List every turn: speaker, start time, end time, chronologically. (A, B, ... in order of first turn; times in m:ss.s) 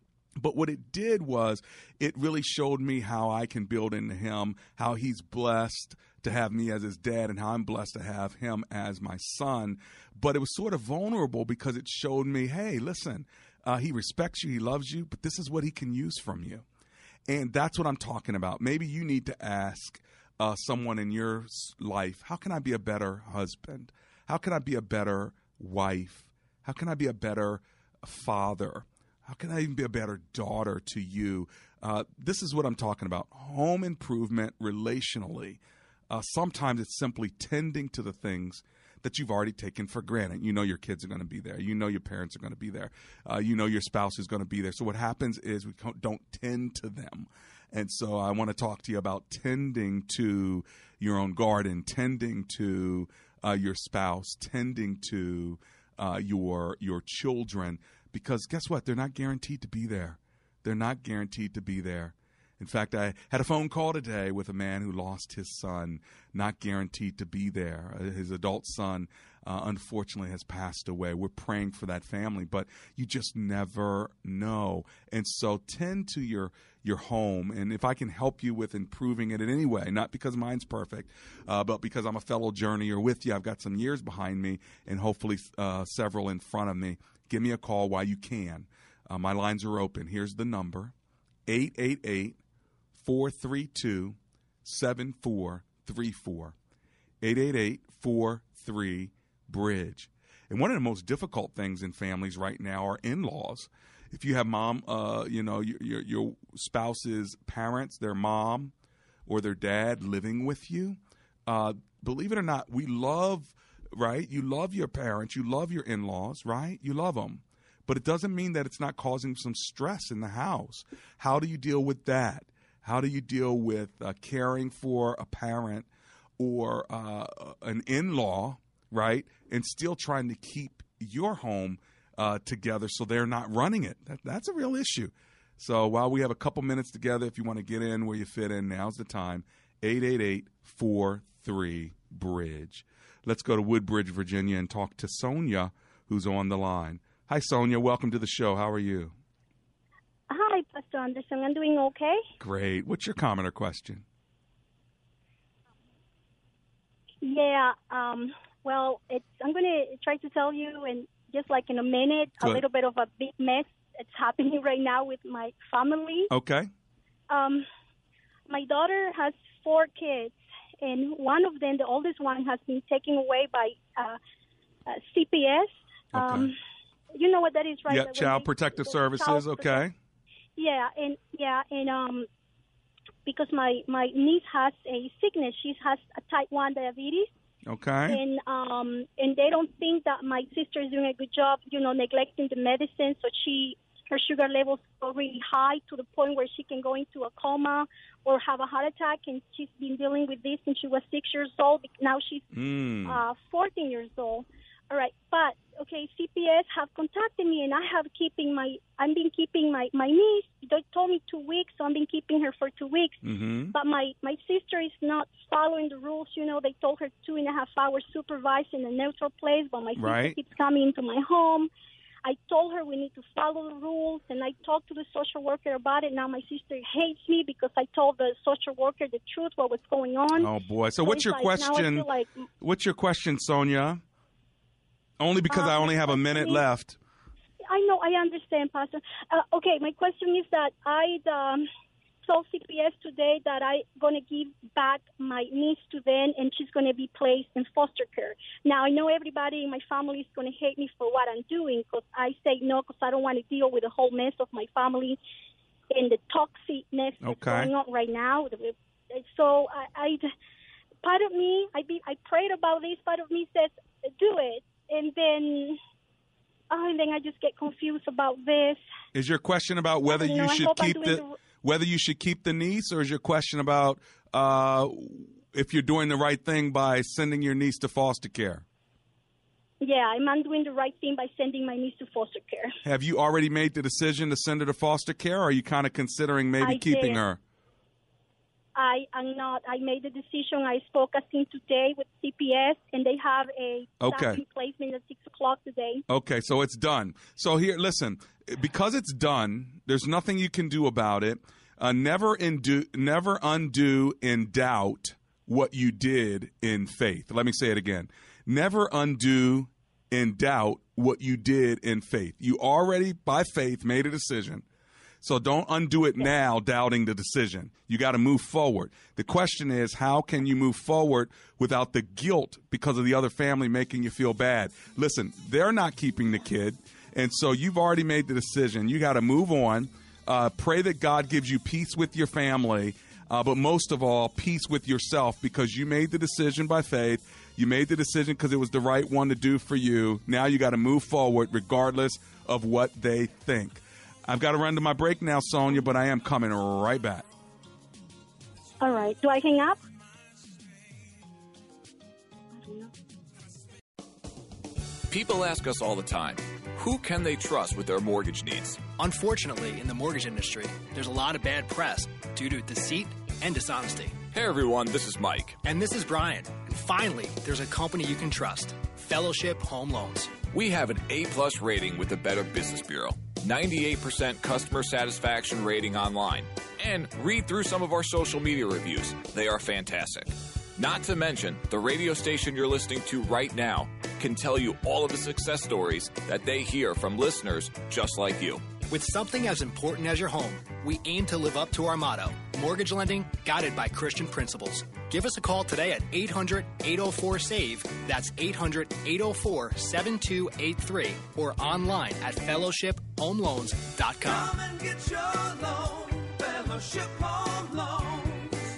0:00.4-0:16.6 A
0:17.3-0:35.6 A
0:36.1-1:30.9 A
1:31.5-1:32.4 A
1:33.0-1:36.5 A
1:37.2-1:48.7 A
1:49.3-2:05.9 A
2:06.4-2:29.1 A
2:30.3-2:32.2 B
2:32.4-2:34.0 A
2:37.2-2:46.3 B
2:46.3-2:46.7 A
2:47.3-2:47.6 B
2:48.5-2:54.2 B
2:54.9-2:56.6 B
2:56.1-2:56.5 A
2:57.2-2:59.8 B
2:57.9-2:59.9 A
3:00.6-3:02.3 B
3:03.2-3:07.3 B
3:07.7-3:08.2 A
3:08.1-3:22.5 B
3:22.5-3:23.2 A
3:23.0-3:33.2 B
3:33.2-3:33.7 A
3:33.7-3:41.7 B
3:40.0-3:40.4 A
3:42.2-3:52.4 B
3:50.3-3:52.1 A
3:52.6-3:54.0 A
3:55.2-3:57.0 A
3:55.5-3:56.6 B
3:57.7-4:01.6 B
4:02.2-4:15.2 B
4:15.9-4:20.3 B
4:17.2-4:17.7 A
4:21.0-4:25.8 B
4:26.7-4:28.8 B
4:29.1-4:38.6 A
4:30.1-4:31.3 B
4:39.8-4:42.7 B
4:42.8-4:47.4 A
4:46.6-4:47.2 B
4:48.8-4:56.0 B
4:54.0-4:54.4 A
4:56.1-5:14.6 A
5:15.2-5:47.2 A
5:48.8-5:49.8 B
5:52.6-5:52.9 B
5:55.1-5:58.8 C
5:59.0-6:04.2 D
6:04.3-6:05.6 C
6:05.6-6:10.3 D
6:10.5-6:28.7 C
6:28.8-6:44.6 D
6:45.3-6:45.7 C
6:47.2-6:48.3 C